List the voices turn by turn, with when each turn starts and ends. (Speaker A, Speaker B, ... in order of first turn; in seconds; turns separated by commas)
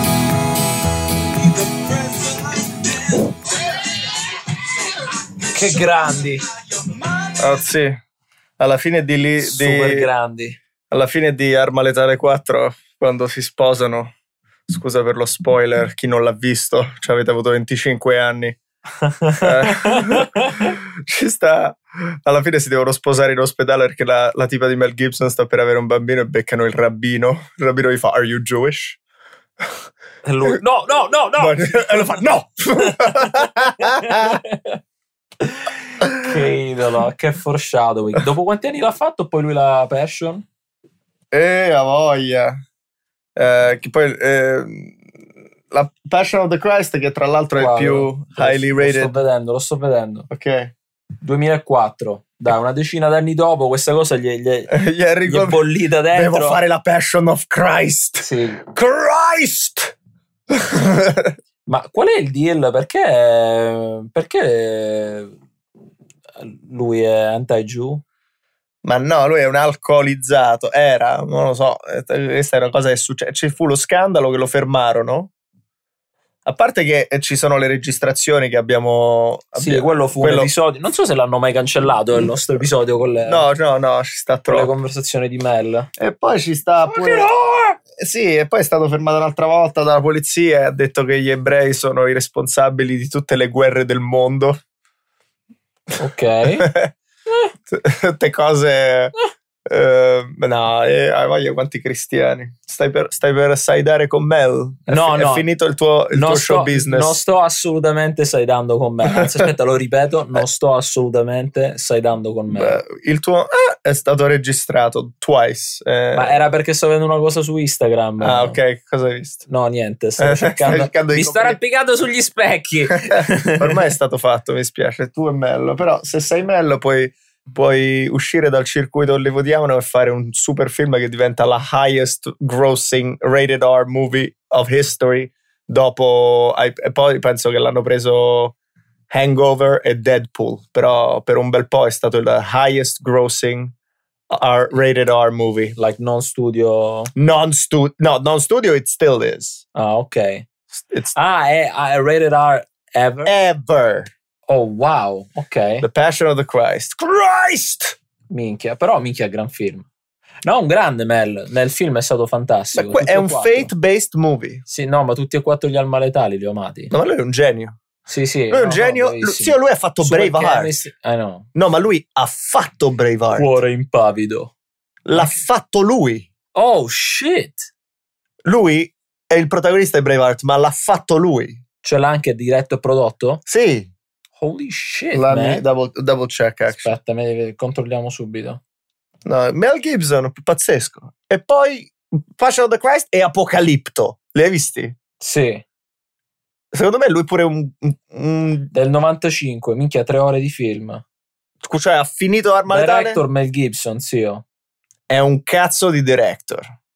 Speaker A: 1.7-3.2, Speaker A: 5.5-6.4, Speaker B: 7.4-8.0, Speaker B: 8.6-10.1, Speaker A: 9.4-10.6, Speaker B: 10.9-14.1, Speaker B: 14.7-18.6, Speaker A: 19.1-20.8, Speaker B: 19.4-29.0, Speaker A: 30.2-32.3, Speaker B: 31.4-34.4, Speaker A: 32.8-34.8, Speaker A: 35.4-40.5, Speaker B: 41.3-42.6, Speaker B: 43.4-45.0, Speaker B: 45.7-49.2, Speaker A: 47.6-50.3, Speaker B: 50.3-50.7, Speaker A: 51.2-54.7, Speaker B: 54.7-59.9, Speaker A: 55.2-56.6, Speaker A: 58.2-58.6, Speaker B: 60.5-61.4, Speaker A: 61.7-65.3, Speaker A: 66.4-68.0, Speaker B: 68.8-75.3, Speaker B: 76.5-80.5, Speaker A: 79.6-83.5, Speaker B: 83.2-84.7, Speaker A: 84.5-85.9, Speaker B: 86.0-87.3, Speaker A: 86.8-87.8, Speaker B: 87.9-94.6, Speaker A: 96.0-96.7, Speaker B: 96.6-96.9, Speaker B: 97.7-99.1, Speaker B: 99.7-107.2, Speaker A: 104.9-105.5, Speaker A: 106.1-112.8, Speaker B: 109.2-109.5, Speaker B: 112.5-116.4, Speaker A: 116.1-118.6, Speaker B: 118.2-119.5, Speaker A: 119.5-123.8, Speaker B: 120.2-121.6, Speaker B: 123.1-138.5, Speaker B: 139.1-143.7, Speaker B: 144.3-145.8, Speaker A: 145.8-147.1, Speaker B: 147.2-149.6, Speaker A: 149.8-150.5, Speaker A: 151.2-153.3, Speaker B: 153.3-154.1, Speaker A: 154.5-155.9, Speaker B: 155.8-158.0, Speaker A: 158.3-159.9, Speaker A: 160.4-163.7, Speaker B: 162.7-164.6, Speaker A: 164.7-166.9, Speaker B: 166.9-167.8, Speaker A: 168.1-171.5, Speaker B: 168.5-170.7, Speaker B: 171.6-173.5, Speaker A: 173.3-174.5, Speaker B: 175.1-176.3, Speaker A: 176.6-177.7, Speaker B: 178.4-181.6, Speaker A: 181.8-183.4, Speaker B: 183.5-183.9, Speaker A: 184.4-185.6, Speaker B: 185.1-186.9, Speaker A: 186.7-188.6, Speaker B: 189.2-194.9, Speaker A: 195.2-195.7, Speaker B: 196.7-198.7, Speaker A: 198.7-201.0, Speaker B: 201.6-203.2, Speaker A: 202.7-204.4, Speaker B: 205.1-206.7